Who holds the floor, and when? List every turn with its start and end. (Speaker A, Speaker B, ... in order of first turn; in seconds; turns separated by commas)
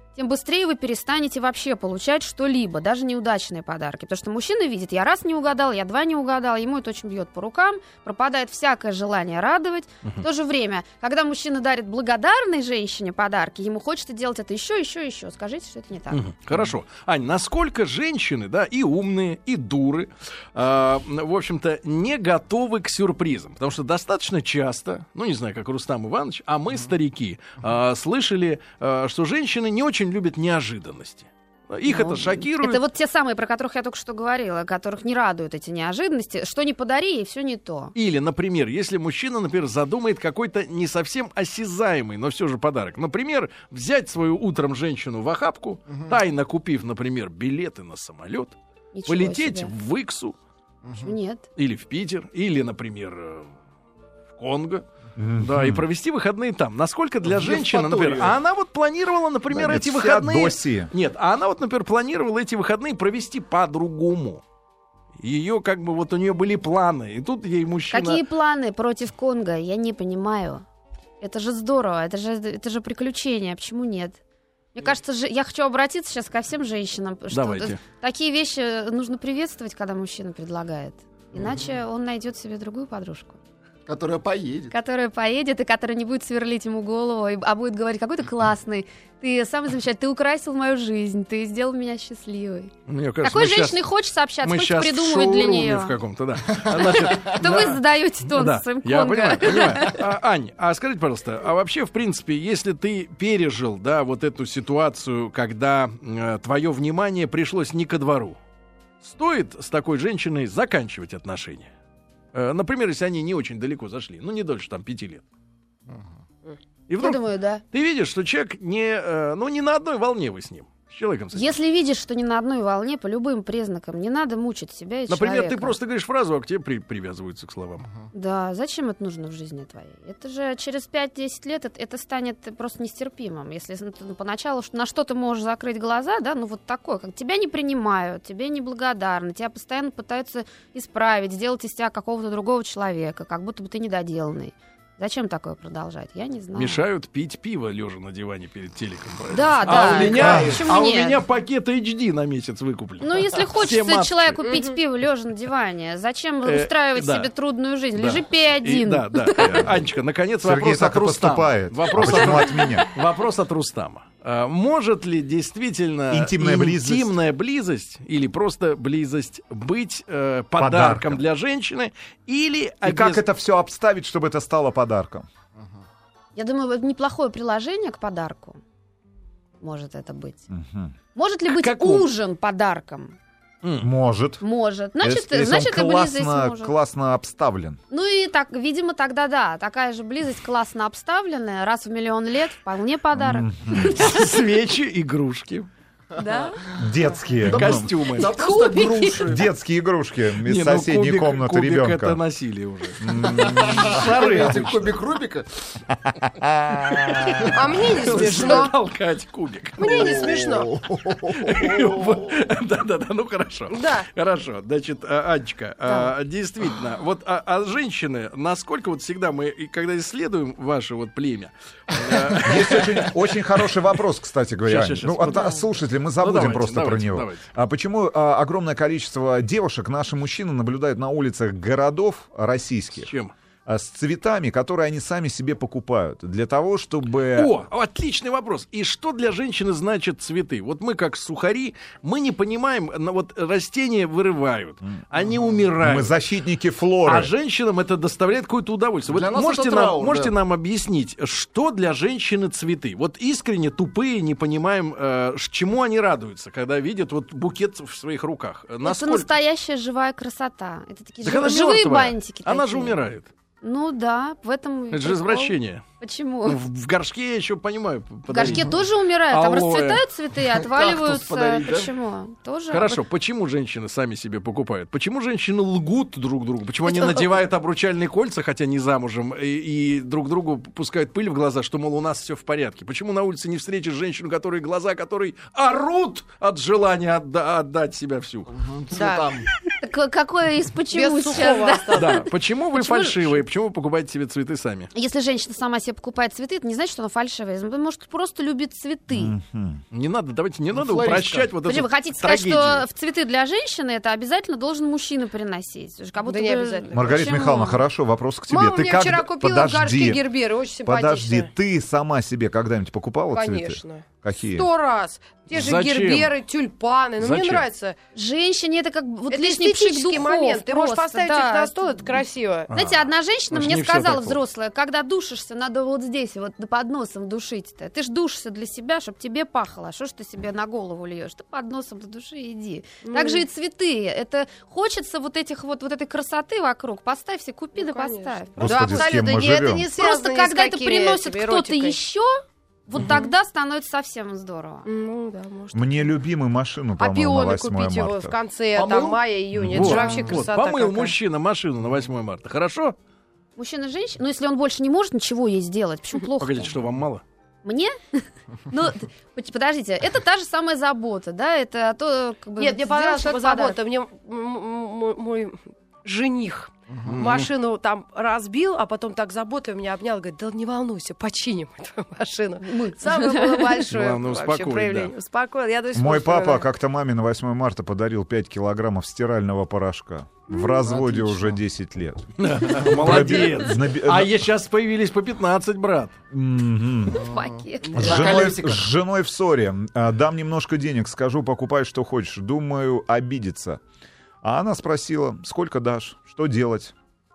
Speaker A: 0.1-16.2, Speaker B: 16.1-32.8, Speaker A: 31.9-37.9, Speaker B: 37.9-48.5, Speaker A: 48.9-49.7, Speaker B: 49.1-50.4, Speaker C: 50.8-51.1, Speaker A: 51.0-51.4, Speaker B: 51.5-53.5, Speaker B: 54.3-54.9, Speaker D: 55.1-55.8, Speaker B: 55.4-64.4, Speaker C: 57.3-58.4, Speaker D: 59.5-60.9, Speaker B: 65.2-68.2, Speaker A: 67.9-70.6, Speaker A: 71.2-74.2, Speaker A: 74.7-83.4, Speaker B: 77.3-77.8, Speaker C: 83.8-84.7, Speaker A: 84.7-96.0, Speaker B: 92.9-93.8, Speaker B: 94.4-97.8, Speaker A: 96.7-100.0, Speaker B: 98.3-108.4, Speaker B: 109.0-111.7, Speaker B: 112.3-115.2, Speaker B: 116.9-121.5, Speaker A: 117.0-117.6, Speaker A: 121.3-125.7, Speaker B: 125.1-127.9, Speaker A: 128.1-146.8, Speaker B: 146.5-154.4, Speaker A: 149.3-151.2, Speaker C: 149.7-150.6, Speaker D: 150.1-150.6, Speaker A: 153.0-159.7, Speaker E: 154.4-154.8, Speaker B: 156.4-157.3, Speaker B: 157.9-173.2, Speaker D: 160.4-162.9, Speaker A: 162.1-162.8, Speaker D: 166.1-167.1, Speaker D: 170.6-171.2, Speaker D: 172.8-175.3, Speaker A: 176.3-178.6, Speaker A: 179.6-180.4, Speaker D: 180.5-180.9, Speaker A: 181.1-183.1, Speaker B: 181.5-182.1, Speaker B: 183.6-183.9, Speaker D: 183.8-184.4, Speaker A: 184.4-186.7, Speaker D: 185.0-187.8, Speaker A: 187.9-194.3, Speaker D: 193.1-194.0, Speaker B: 193.8-195.7, Speaker A: 196.2-196.6, Speaker D: 196.8-197.9, Speaker C: 197.4-199.5, Speaker B: 197.4-198.3, Speaker A: 198.2-199.2, Speaker D: 199.2-202.2, Speaker B: 200.4-205.0, Speaker D: 203.0-204.0, Speaker C: 203.2-205.5, Speaker D: 205.9-207.4, Speaker B: 206.9-210.3, Speaker E: 207.5-208.7, Speaker E: 209.8-210.7, Speaker C: 209.8-212.3, Speaker B: 211.1-223.7, Speaker E: 213.7-214.1, Speaker D: 222.3-233.1, Speaker B: 224.7-225.6, Speaker A: 225.3-225.6, Speaker B: 226.2-227.5, Speaker B: 233.0-233.3, Speaker D: 233.7-237.5, Speaker B: 237.3-246.1, Speaker D: 245.8-247.3, Speaker B: 247.0-259.3, Speaker C: 249.1-250.3, Speaker A: 258.8-263.0, Speaker B: 261.2-263.3, Speaker A: 263.6-266.6, Speaker B: 264.9-265.8, Speaker B: 266.4-270.0, Speaker A: 268.3-273.0, Speaker C: 270.6-271.9, Speaker B: 272.7-288.5, Speaker A: 276.9-277.3, Speaker C: 288.5-289.5, Speaker E: 288.9-289.3, Speaker A: 289.7-293.4, Speaker E: 290.9-292.2, Speaker B: 291.9-294.9, Speaker A: 294.9-299.3, Speaker D: 299.1-299.8, Speaker B: 299.9-302.8, Speaker C: 300.7-301.5, Speaker A: 301.6-307.8, Speaker E: 306.2-307.5, Speaker D: 306.9-310.2, Speaker E: 308.5-311.5, Speaker D: 310.8-314.7, Speaker E: 313.3-317.9, Speaker B: 315.5-316.3, Speaker B: 317.2-317.6, Speaker A: 318.1-344.9, Speaker E: 319.3-322.7, Speaker B: 322.7-324.4, Speaker E: 333.0-333.4, Speaker E: 337.8-342.0, Speaker D: 338.6-339.9, Speaker E: 343.0-343.3, Speaker E: 344.8-346.0, Speaker D: 345.7-348.3, Speaker E: 347.0-351.1, Speaker C: 348.7-349.2, Speaker D: 349.6-349.9, Speaker B: 349.7-352.9, Speaker C: 349.8-350.4, Speaker A: 353.6-356.7, Speaker B: 356.4-357.2, Speaker A: 357.6-363.8, Speaker E: 362.6-376.7, Speaker B: 367.1-367.5, Speaker A: 372.6-373.8, Speaker B: 373.9-375.1, Speaker D: 375.9-384.4, Speaker C: 380.8-381.5, Speaker B: 382.4-386.1, Speaker D: 386.3-387.2, Speaker C: 387.1-388.9, Speaker A: 387.1-388.5, Speaker D: 387.9-393.8, Speaker D: 394.4-396.9